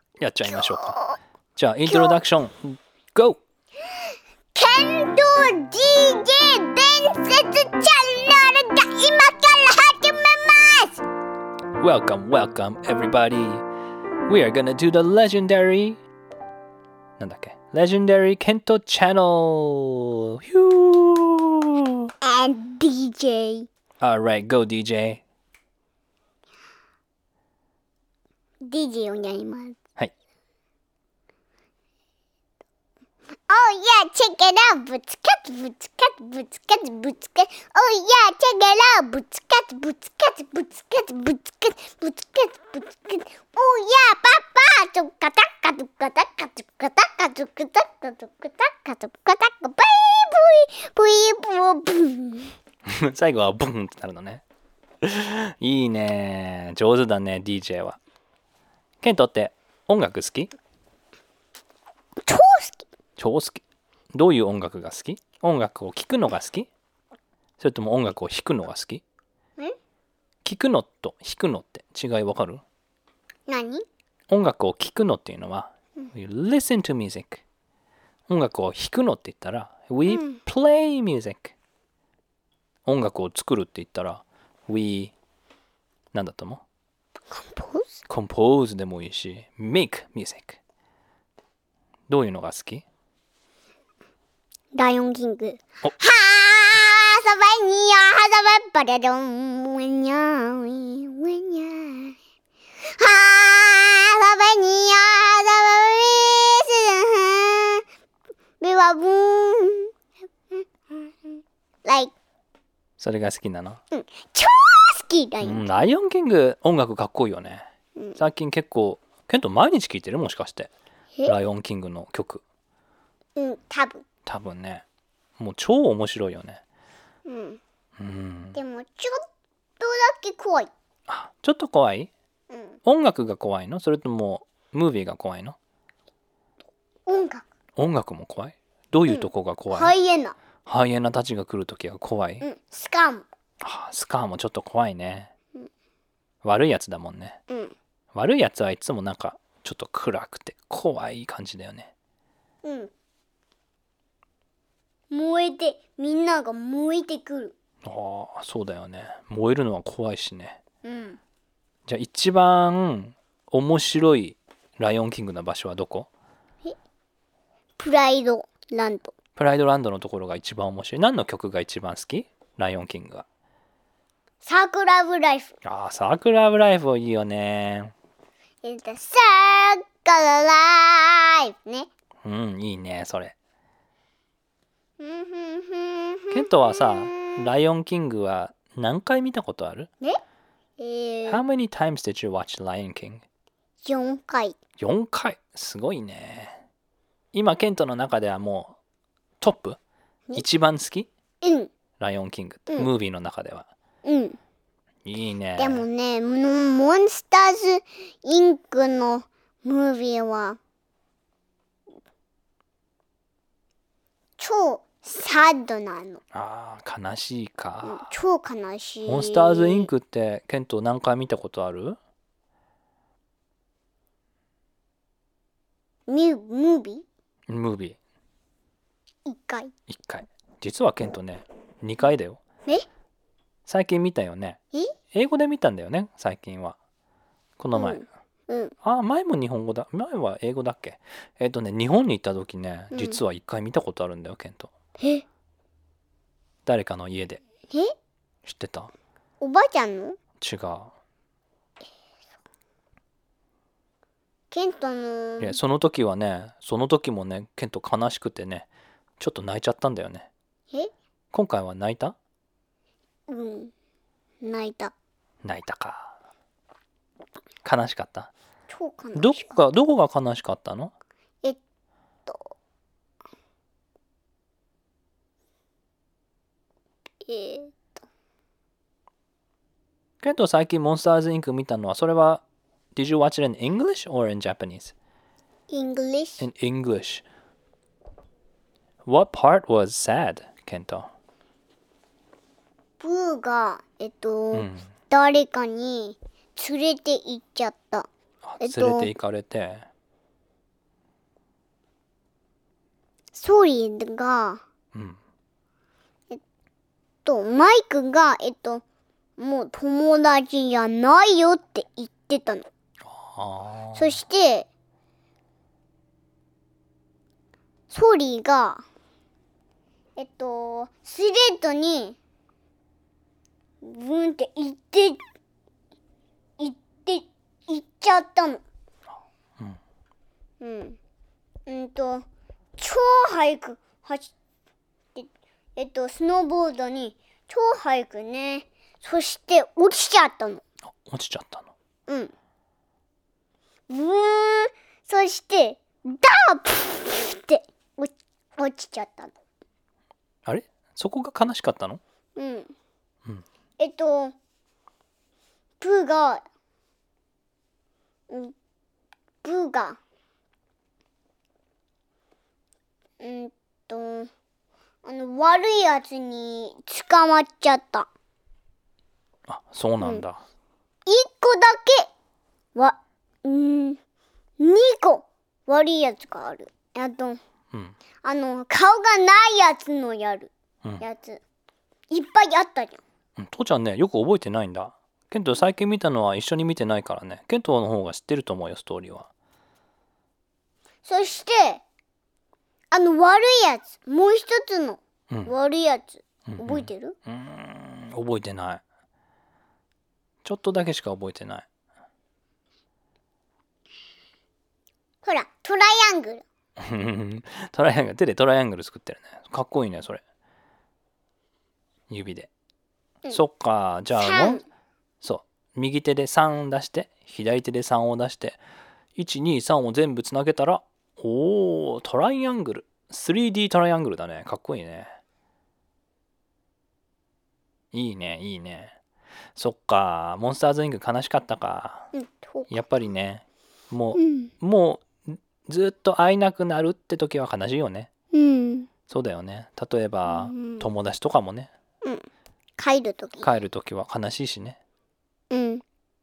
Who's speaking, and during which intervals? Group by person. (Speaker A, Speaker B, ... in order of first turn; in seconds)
Speaker A: 0.2-0.9, 1.6-3.4, 11.8-13.6, 14.3-16.0, 17.2-22.1, 24.0-25.2, 52.9-54.4, 55.0-58.0, 59.0-60.5, 63.2-63.6, 64.1-66.7, 67.6-69.0, 70.4-72.6, 74.3-77.4, 78.3-81.5, 82.9-85.1, 86.1-86.6, 88.1-90.6, 92.1-92.8, 113.0-113.8, 115.4-117.7, 118.2-120.7, 121.3-122.4, 124.3-124.8, 125.4-126.6, 128.0-128.6, 131.1-132.1, 132.8-135.6, 137.8-139.9, 140.7-142.5, 143.6-145.3, 146.4-147.4, 148.1-151.9, 157.8-160.6, 161.9-166.1, 169.4-173.2, 175.6-177.9, 182.2-183.3, 186.3-189.9, 191.3-193.2, 194.8-196.6, 197.3-198.8, 199.4-199.8, 200.4-201.1, 202.0-203.7, 205.1-205.9, 216.3-218.1, 219.1-222.0, 227.5-228.0, 229.9-232.4, 233.7-234.6, 235.1-236.8, 237.6-238.1, 238.8-244.7, 246.7-247.4, 248.4-248.9, 250.4-250.9, 255.4-258.7, 259.2-260.3, 261.3-262.2, 265.4-266.1, 267.6-268.3, 269.1-270.9, 280.2-282.4, 282.9-284.9, 286.4-287.2, 289.1-291.1, 294.5-294.9, 298.4-299.9, 304.9-305.2, 313.0-314.2, 340.9-341.7, 350.5-352.0, 369.5-370.4, 383.4-389.3, 396.5-398.8, 400.4-401.7, 406.8-410.2, 412.1-412.5, 413.3-414.6, 415.2-418.6, 419.2-425.1, 427.9-429.0, 429.6-432.1, 432.7-438.1, 439.1-441.7, 443.4-444.8
Speaker B: 0.5-1.2, 1.9-2.2, 4.5-11.0, 22.2-23.7, 28.6-29.8, 33.5-52.5, 62.2-62.9, 73.5-73.9, 80.1-80.4, 87.3-88.0, 94.7-102.2, 103.0-107.8, 108.6-109.9, 110.5-112.1, 113.9-115.9, 123.4-124.0, 127.3-127.6, 128.6-129.2, 129.8-130.7, 132.5-132.8, 137.1-137.4, 139.1-140.4, 142.4-143.3, 147.5-147.8, 152.6-152.9, 155.1-157.5, 160.8-161.2, 167.8-169.2, 174.4-175.5, 178.6-181.9, 185.0-187.4, 190.8-191.4, 193.8-194.6, 201.4-201.7, 204.1-204.4, 205.6-210.6, 214.4-216.2, 217.8-219.9, 226.1-227.1, 229.3-229.7, 237.8-238.8, 242.9-243.2, 245.0-245.2, 249.4-250.2, 254.5-255.6, 263.3-263.7, 264.4-264.9, 268.7-269.6, 272.3-272.5, 277.2-277.9, 285.7-286.4, 293.0-298.1, 298.6-299.1, 303.3-304.6, 307.2-308.8, 309.4-312.7, 314.0-314.7, 317.9-318.8, 320.2-322.2, 323.8-325.2, 326.6-328.6, 330.6-331.0, 331.7-332.3, 332.8-334.3, 335.1-340.6, 343.9-349.4, 352.4-352.7, 353.8-354.4, 355.8-356.4, 358.3-358.6, 359.4-360.0, 363.2-364.3, 365.0-368.1, 371.1-372.1, 372.8-374.0, 374.6-377.4, 378.2-381.4, 382.1-383.0, 391.0-391.8, 392.9-397.2, 405.2-406.4, 414.2-414.6, 432.1-432.8, 434.1-434.5, 438.3-438.9, 440.3-440.9, 442.8-443.5, 445.5-445.8